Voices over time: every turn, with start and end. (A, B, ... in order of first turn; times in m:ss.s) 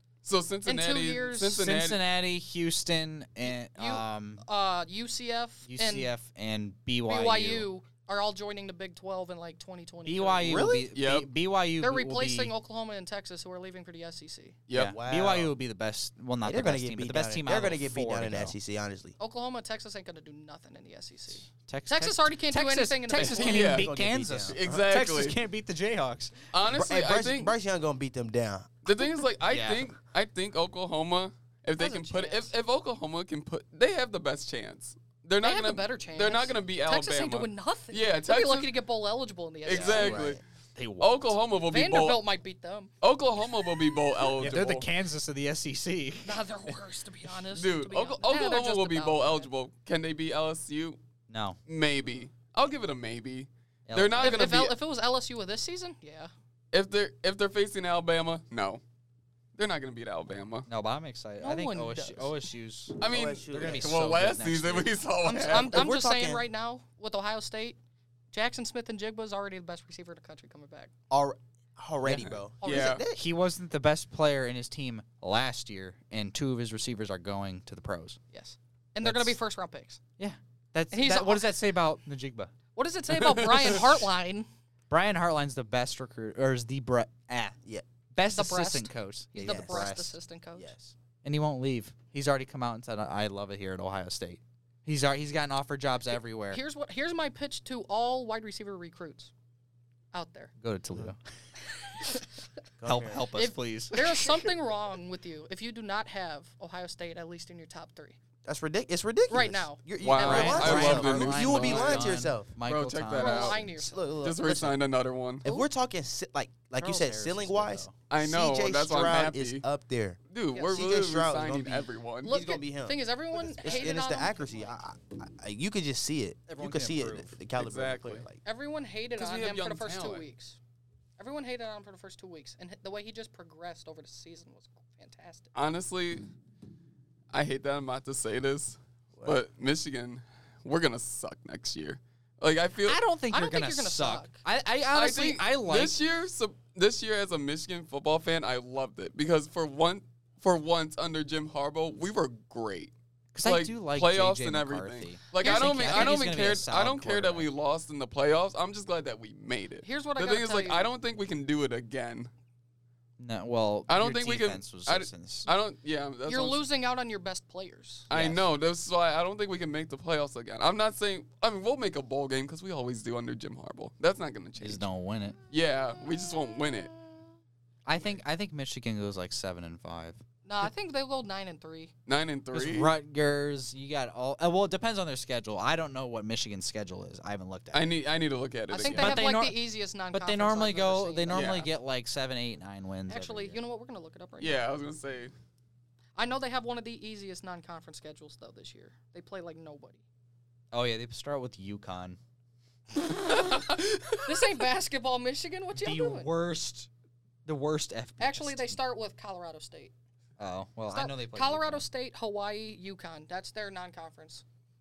0:00.2-0:02.0 A
0:00.6-0:01.6 B
0:01.5-0:04.4 C
0:03.7-0:06.1 B
0:05.6-0:07.7 C
0:07.0-0:10.7 B
0:10.0-0:12.5 C
0:10.4-0:10.9 D
0:10.9-0:11.3 A
0:11.8-0:14.6 B
0:14.7-0:14.9 A
0:14.7-0:18.5 C
0:14.8-0:15.6 D
0:16.4-0:19.2 D
0:19.2-0:23.6 B
0:21.6-0:26.5 C
0:23.2-0:23.9 A
0:23.2-0:24.6 D
0:24.5-0:25.4 A
0:26.5-0:27.5 A
0:26.6-0:28.7 D
0:28.8-0:38.7 A
0:29.5-0:29.9 C
0:31.8-0:32.5 B
0:35.4-0:40.2 B
0:39.6-0:40.4 A
0:39.7-0:40.2 C
0:39.7-0:40.4 D
0:40.7-0:41.4 C
0:41.0-0:42.2 A
0:41.7-0:42.9 B
0:43.0-0:44.9 A
0:44.4-0:46.8 C
0:46.2-0:49.5 B
0:47.5-0:51.0 A
0:51.3-0:51.6 C
0:51.7-0:54.8 A
0:53.9-0:54.6 C
0:54.2-0:56.3 B
0:56.7-0:58.8 A
0:59.5-1:00.7 A
1:00.7-1:05.0 C
1:01.4-1:02.4 B
1:03.0-1:05.8 A
1:03.0-1:03.9 D
1:05.2-1:07.8 B
1:05.5-1:06.4 D
1:08.3-1:10.9 B
1:11.1-1:13.2 D
1:12.1-1:13.0 A
1:12.6-1:13.0 B
1:13.1-1:18.2 C
1:18.3-1:20.0 B
1:20.2-1:22.5 C
1:20.9-1:21.5 B
1:22.7-1:24.5 B
1:23.1-1:23.9 A
1:24.9-1:27.6 C
1:28.1-1:30.1 C
1:28.3-1:30.7 B
1:29.4-1:30.9 D
1:31.2-1:36.6 C
1:36.5-1:39.3 B
1:40.1-1:40.5 B
1:40.6-1:41.2 C
1:41.8-1:42.2 B
1:42.8-1:43.2 D
1:42.8-1:44.5 C
1:43.3-1:48.2 B
1:48.4-1:52.5 D
1:49.3-1:50.9 B
1:50.0-1:53.6 A
1:50.2-1:53.7 C
1:53.1-1:54.1 B
1:53.7-1:54.8 D
1:54.2-1:55.4 A
1:55.4-2:00.2 D
1:56.8-1:58.0 C
1:58.1-1:59.6 A
2:00.3-2:02.3 A
2:00.7-2:08.4 D
2:02.2-2:04.8 B
2:06.5-2:07.3 C
2:07.6-2:08.2 A
2:08.4-2:10.6 B
2:09.2-2:10.2 A
2:11.2-2:15.5 B
2:15.5-2:16.3 A
2:17.3-2:23.0 A
2:22.8-2:26.0 C
2:23.3-2:24.4 B
2:24.9-2:42.3 A
2:33.3-2:37.5 C
2:35.4-2:36.2 B
2:39.8-2:40.9 B
2:43.2-2:45.5 C
2:43.9-2:46.6 A
2:46.3-2:48.1 B
2:48.1-2:54.8 A
2:48.1-2:48.4 C
2:54.6-2:55.4 C
2:55.5-2:56.9 A
2:57.8-3:00.2 C
3:00.4-3:01.9 B
3:02.0-3:02.9 A
3:02.5-3:07.9 C
3:07.7-3:09.2 A
3:08.7-3:11.6 B
3:08.8-3:13.6 C
3:11.3-3:11.7 A
3:13.1-3:14.6 B
3:14.4-3:15.3 A
3:16.2-3:20.0 B
3:20.7-3:22.2 C
3:23.2-3:23.7 B
3:23.4-3:24.3 A
3:24.2-3:26.3 B
3:25.7-3:26.9 C
3:27.4-3:28.8 C
3:28.2-3:29.9 B
3:30.4-3:31.8 C
3:30.9-3:34.4 B